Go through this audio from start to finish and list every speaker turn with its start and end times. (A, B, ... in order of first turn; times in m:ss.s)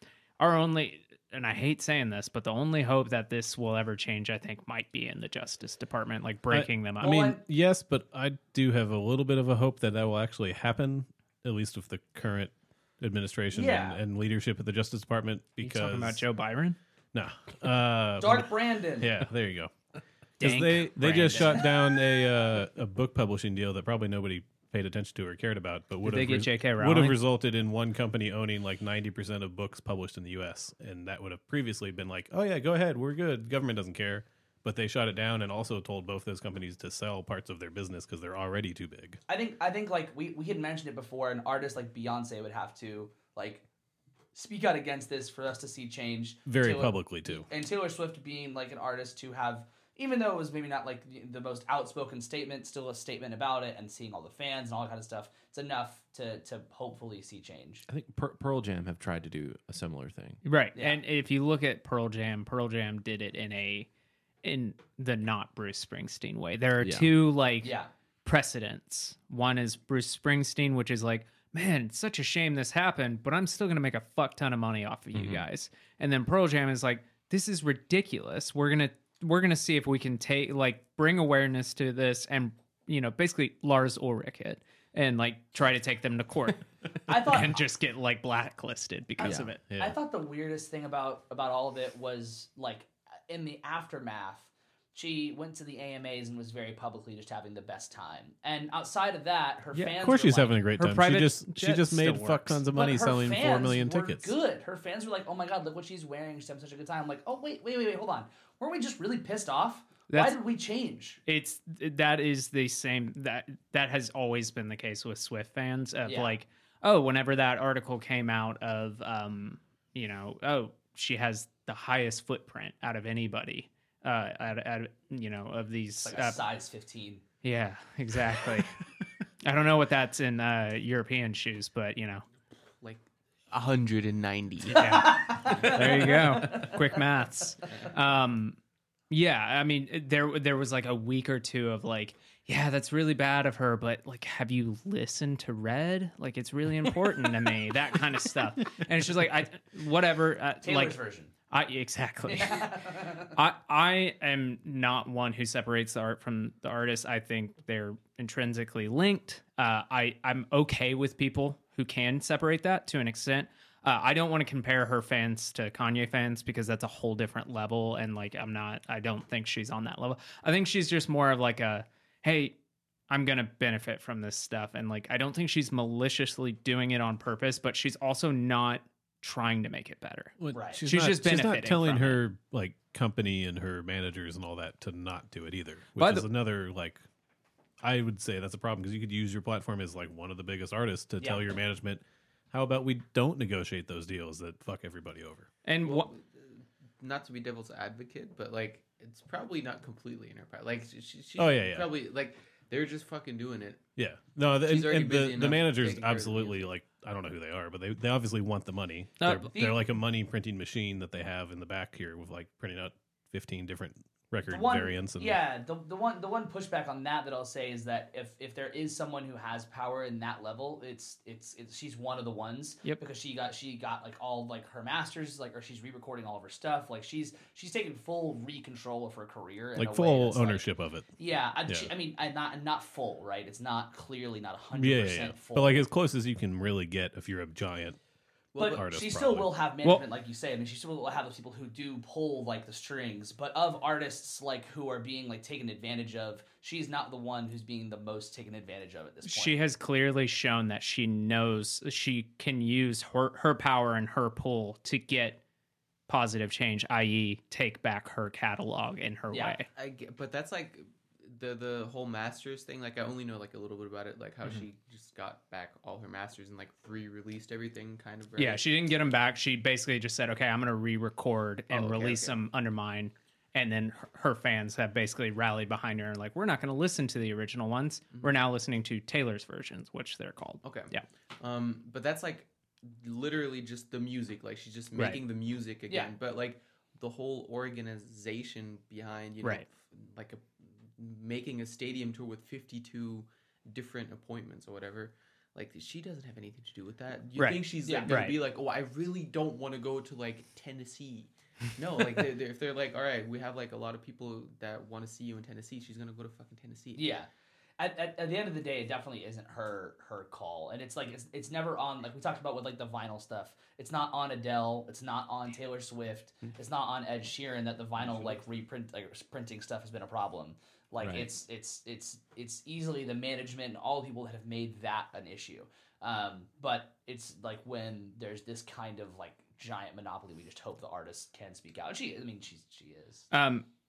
0:00.4-0:07.2 A
0:06.5-0:16.2 B
0:07.0-0:07.4 C
0:13.5-0:14.0 C
0:15.6-0:16.8 A
0:17.1-0:19.7 B
0:18.2-0:19.1 C
0:20.4-0:39.2 B
0:20.4-0:21.6 A
0:21.3-0:21.6 C
0:26.0-0:27.2 A
0:39.3-0:43.6 C
0:44.3-0:57.8 C
0:46.5-0:47.5 B
0:57.9-1:00.4 D
1:00.4-1:03.9 A
1:00.8-1:01.0 C
1:04.4-1:29.7 A
1:06.8-1:07.2 D
1:07.6-1:07.9 C
1:15.1-1:15.4 D
1:27.1-1:27.6 C
1:29.2-1:29.5 D
1:29.2-1:40.6 C
1:29.7-1:30.0 B
1:40.0-1:44.3 B
1:40.7-1:42.6 A
1:42.7-1:51.2 C
1:50.1-1:50.4 A
1:51.3-2:06.4 A
1:56.1-1:56.4 C
2:06.0-2:07.2 C
2:07.4-2:08.8 A
2:09.4-2:12.2 A
2:12.8-2:16.1 E
2:14.7-2:18.6 A
2:14.8-2:17.0 C
2:19.1-2:31.0 A
2:30.6-2:31.3 C
2:31.5-2:52.6 A
2:32.3-2:33.4 C
2:53.1-3:02.2 A
3:00.4-3:07.0 B
3:00.5-3:00.8 C
3:06.0-3:06.3 A
3:07.8-3:15.5 B
3:15.6-3:16.1 A
3:15.8-3:23.8 E
3:21.4-3:21.9 B
3:24.0-3:35.4 B
3:24.6-3:26.7 E
3:29.2-3:29.5 A
3:29.5-3:29.8 C
3:34.5-3:50.7 C
3:49.8-3:51.1 B
3:51.2-3:55.8 C
3:51.7-3:51.9 B
3:54.7-3:58.0 B
3:58.5-3:58.8 E
3:58.6-4:09.6 C
3:58.7-3:59.5 B
4:09.2-4:15.4 A
4:16.1-4:19.7 A
4:19.3-4:19.6 C
4:19.7-4:28.7 E
4:28.4-4:41.0 A
4:31.7-4:32.4 E
4:38.1-4:38.4 E
4:40.6-5:07.1 E
4:45.0-4:45.2 A
4:57.4-4:58.4 A
4:57.8-4:58.3 C
5:07.0-5:07.3 C
5:07.8-5:33.3 C
5:21.0-5:21.3 D
5:33.3-5:33.7 A